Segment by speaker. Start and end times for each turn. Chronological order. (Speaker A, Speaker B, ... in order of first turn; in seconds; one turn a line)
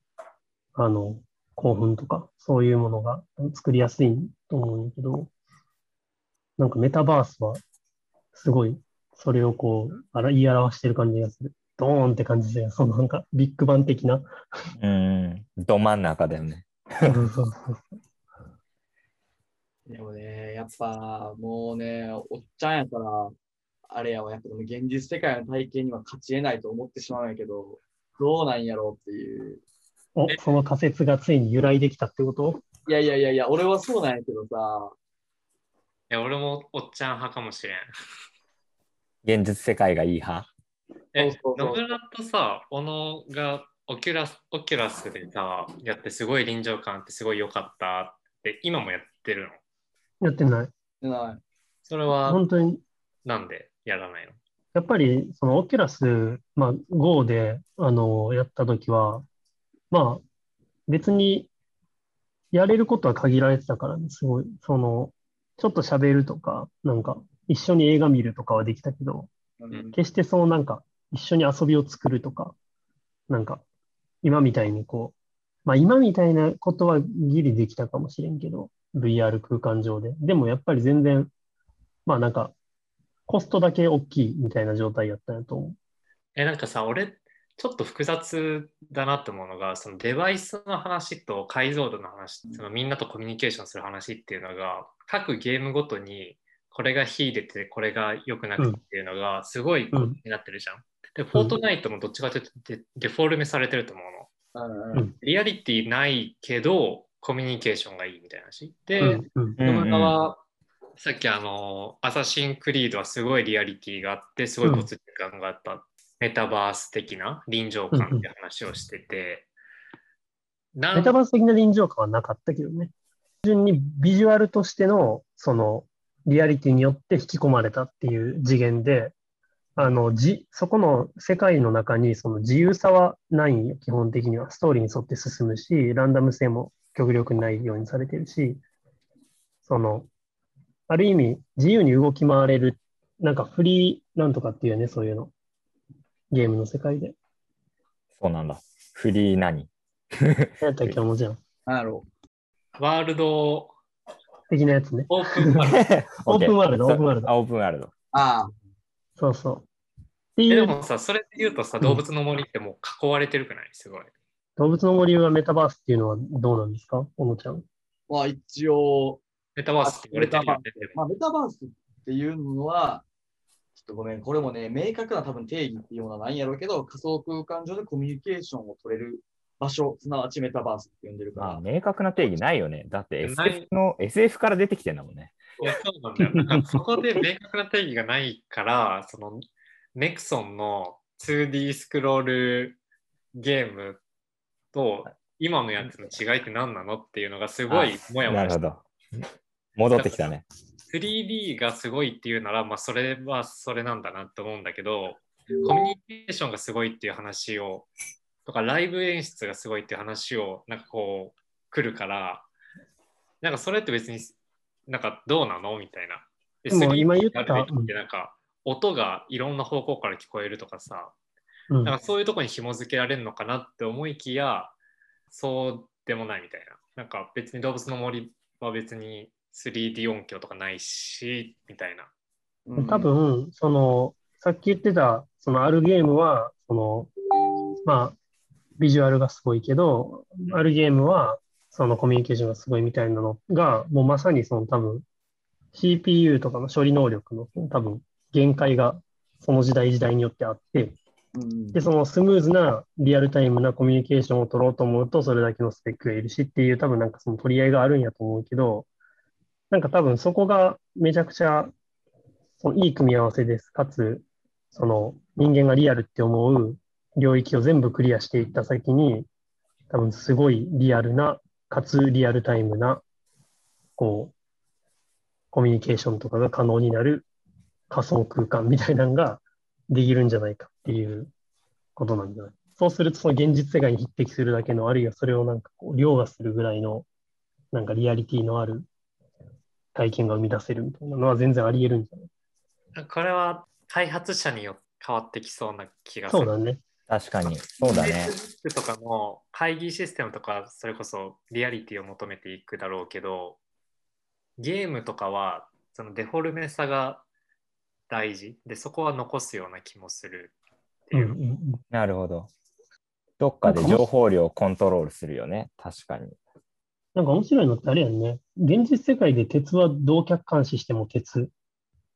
Speaker A: 0.8-5.3
Speaker A: 6.6-7.6
Speaker A: 8.3-14.3
Speaker B: 14.8-17.2
Speaker A: 17.1-17.9
Speaker C: 19.9-23.3
Speaker C: 23.9-29.6
Speaker A: 30.1-32.6
Speaker C: 32.9-34.9
Speaker D: 36.1-37.9
Speaker B: 39.2-40.5
Speaker D: 41.1-49.6
Speaker C: 41.2-41.9
Speaker A: 50.2-50.7
Speaker C: 51.0-51.4
Speaker D: 51.9-52.4
Speaker A: 52.3-52.8
Speaker D: 53.2-54.4
Speaker A: 54.7-59.2
Speaker A: 59.9-60.2
Speaker A: 60.9-61.5
Speaker A: 62.5-69.3
Speaker C: 69.6-70.0
Speaker A: 69.9-72.5
Speaker A: 73.3-73.6
Speaker A: 74.2-81.3
Speaker A: 82.1-82.5
Speaker A: 83.3-85.8
Speaker D: 86.4-104.3
Speaker A: 99.9-100.2
Speaker C: 104.5-105.0
Speaker D: 105.2-110.4
Speaker A: 109.0-109.6
Speaker B: 109.6-110.2
Speaker D: 111.0-119.5
Speaker A: 114.6-114.9
Speaker A: 117.9-118.2
Speaker D: 120.7-121.2
Speaker A: 120.9-122.9
Speaker A: 123.4-129.1
Speaker A: 129.8-138.6
Speaker A: 139.6-140.1
Speaker A: 140.9-145.3
Speaker A: 146.3-147.2
Speaker B: 148.2-151.0
Speaker A: 150.6-151.4
Speaker C: 151.7-152.1
Speaker D: 152.8-153.7
Speaker A: 154.5-155.7
Speaker D: 155.1-155.8
Speaker B: 155.7-157.9
Speaker A: 156.2-157.3
Speaker C: 158.1-158.5
Speaker A: 159.2-159.7
Speaker A: 160.4-160.7
Speaker D: 160.5-164.1
Speaker A: 164.6-167.6
Speaker C: 168.1-169.2
Speaker D: 169.6-171.0
Speaker C: 169.8-173.1
Speaker C: 173.7-181.6
Speaker B: 181.4-185.4
Speaker D: 183.2-183.7
Speaker D: 185.6-189.4
Speaker A: 186.2-186.6
Speaker D: 189.9-192.8
Speaker D: 193.3-194.0
Speaker D: 194.7-198.6
Speaker B: 197.7-199.2
Speaker B: 199.8-200.4
Speaker D: 199.9-200.3
Speaker D: 200.9-207.9
Speaker C: 205.5-205.8
Speaker D: 208.4-212.5
Speaker D: 213.4-214.4
Speaker D: 214.9-221.1
Speaker A: 216.7-217.9
Speaker A: 221.7-221.9
Speaker D: 221.8-224.7
Speaker D: 225.3-232.1
Speaker C: 232.7-233.1
Speaker A: 232.8-237.1
Speaker A: 237.8-238.2
Speaker A: 238.8-245.1
Speaker A: 245.7-251.0
Speaker C: 251.3-251.8
Speaker A: 251.7-258.9
Speaker A: 259.7-261.7
Speaker A: 262.6-269.3
Speaker A: 269.9-273.0
Speaker A: 274.0-274.3
Speaker A: 275.5-277.3
Speaker A: 277.9-281.3
Speaker A: 281.9-287.1
Speaker A: 287.7-288.9
Speaker A: 289.9-292.3
Speaker D: 292.9-296.6
Speaker A: 296.3-296.8
Speaker B: 297.1-298.3
Speaker D: 297.8-303.6
Speaker D: 304.6-307.2
Speaker D: 308.1-310.5
Speaker D: 311.1-311.4
Speaker A: 311.1-311.8
Speaker B: 311.9-312.5
Speaker B: 313.4-316.4
Speaker A: 313.6-314.0
Speaker A: 317.1-321.5